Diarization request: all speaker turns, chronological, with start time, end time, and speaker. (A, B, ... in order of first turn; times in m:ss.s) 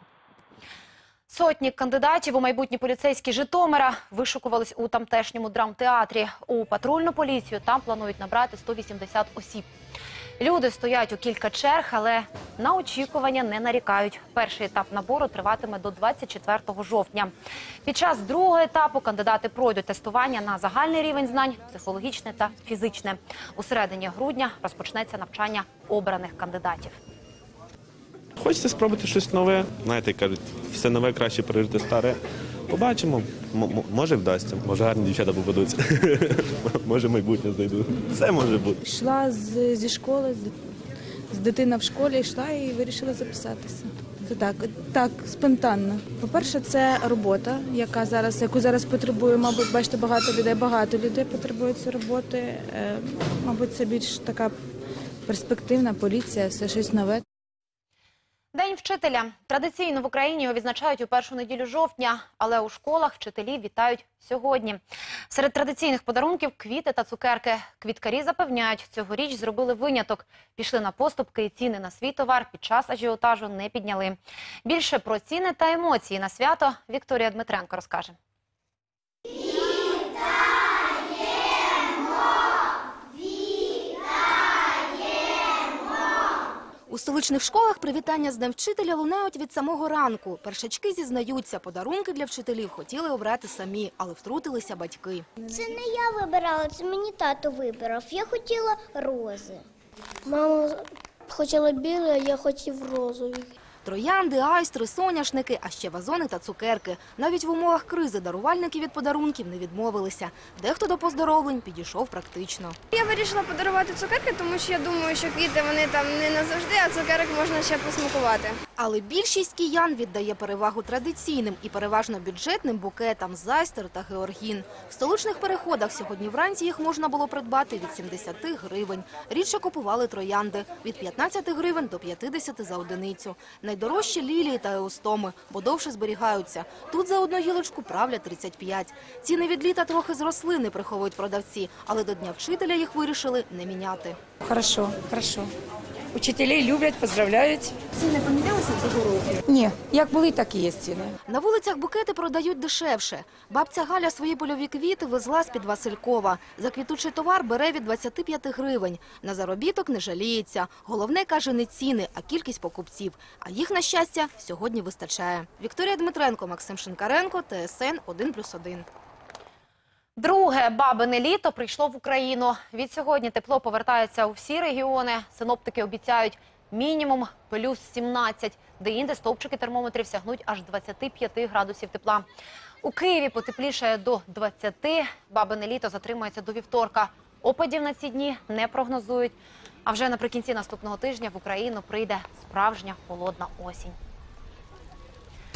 0:01.3-0:09.7 A
0:10.4-0:17.3 A
0:17.9-0:27.0 A
0:28.4-0:38.8 B
0:38.8-0:40.6 C
0:41.3-0:54.6 C
0:55.3-0:57.2 C
0:58.5-1:04.8 A
1:05.3-1:18.2 A
1:26.9-1:35.3 D
1:35.4-1:39.6 E
1:40.3-1:43.5 E
1:43.8-1:52.8 D
1:52.9-1:58.6 F
1:58.8-2:24.2 D
2:24.4-2:25.5 G
2:26.1-2:27.8 G
2:28.0-2:29.4 D
2:29.4-2:31.1 G
2:31.3-2:48.9 D
2:50.2-3:02.3 A
3:02.8-3:14.0 A